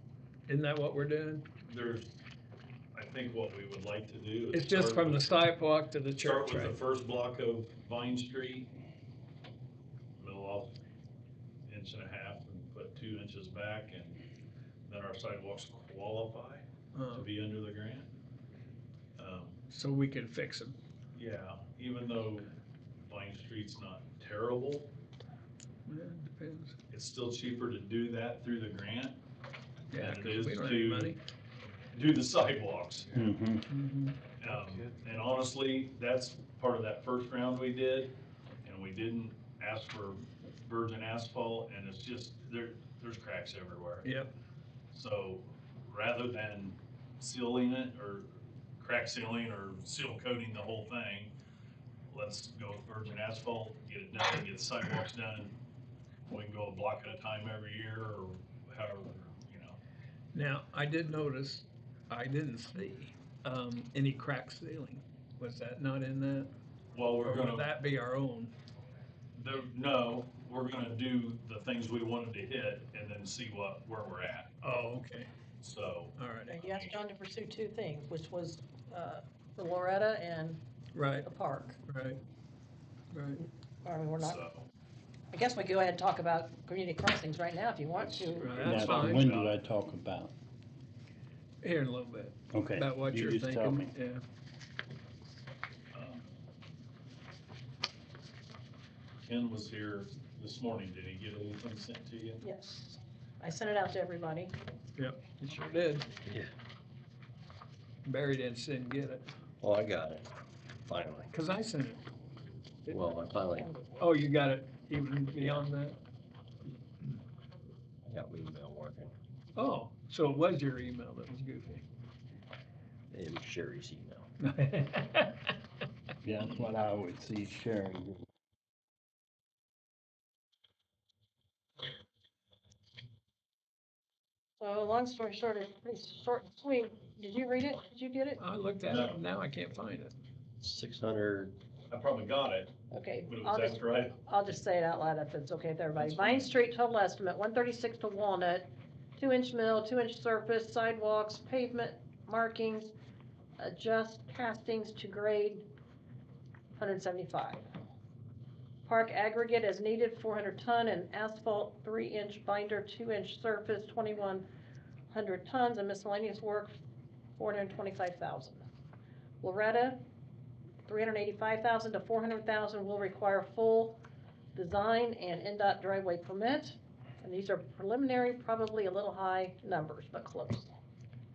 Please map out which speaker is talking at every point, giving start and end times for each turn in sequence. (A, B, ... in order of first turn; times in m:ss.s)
0:00.5-0:01.4 A
0:01.6-0:02.2 B
0:02.9-0:05.4 B
0:04.5-0:06.8 A
0:06.2-0:08.7 B
0:10.2-0:10.7 B
0:11.7-0:14.2 B
0:14.9-0:18.1 B
0:16.9-0:17.3 A
0:19.2-0:19.6 B
0:19.7-0:20.8 A
0:21.1-0:22.5 B
0:23.1-0:24.9 B
0:25.9-0:26.8 A
0:26.9-0:29.2 B
0:29.9-0:31.2 A
0:29.9-0:31.1 B
0:31.9-0:33.1 B
0:33.1-0:33.6 C
0:33.7-0:34.2 A
0:34.4-0:44.1 B
0:44.0-0:44.3 A
0:44.9-0:51.3 B
0:52.1-0:55.6 B
0:56.3-0:59.8 B
1:00.3-1:06.5 A
1:06.9-1:07.7 B
1:07.2-1:08.5 A
1:09.3-1:14.5 B
1:14.6-1:15.3 A
1:15.6-1:16.9 B
1:16.2-1:16.6 A
1:16.5-1:20.6 D
1:20.9-1:21.3 A
1:21.2-1:21.8 D
1:21.9-1:22.2 A
1:23.1-1:23.4 A
1:23.8-1:24.4 D
1:24.2-1:24.7 B
1:25.3-1:28.6 D
1:28.0-1:29.6 B
1:28.4-1:29.3 A
1:28.6-1:30.3 C
1:31.6-1:34.2 A
1:32.5-1:33.9 C
1:35.9-1:36.3 B
1:39.2-1:42.4 B
1:42.4-1:44.5 D
1:45.0-1:46.1 A
1:48.0-1:49.3 A
1:49.6-1:50.3 E
1:50.8-1:51.3 E
1:51.3-1:52.0 A
1:52.9-1:53.7 E
1:53.5-1:53.9 D
1:54.0-1:56.0 A
1:55.4-1:55.6 E
1:58.0-1:59.1 E
1:59.5-2:01.8 A
2:03.1-2:04.3 E
2:04.4-2:05.5 A
2:06.2-2:08.2 C
2:14.6-2:18.4 D
2:18.4-2:20.1 A
2:18.8-2:19.2 B
2:20.6-2:21.5 E
2:21.9-2:24.1 B
2:22.9-2:32.9 D
2:26.0-2:26.5 B
2:33.6-2:35.6 D
2:36.8-2:37.6 D
2:38.8-2:44.4 D
2:45.1-2:46.7 D
2:47.4-2:48.6 D
2:49.4-2:50.0 D
2:50.9-2:54.0 D
2:54.5-3:00.7 D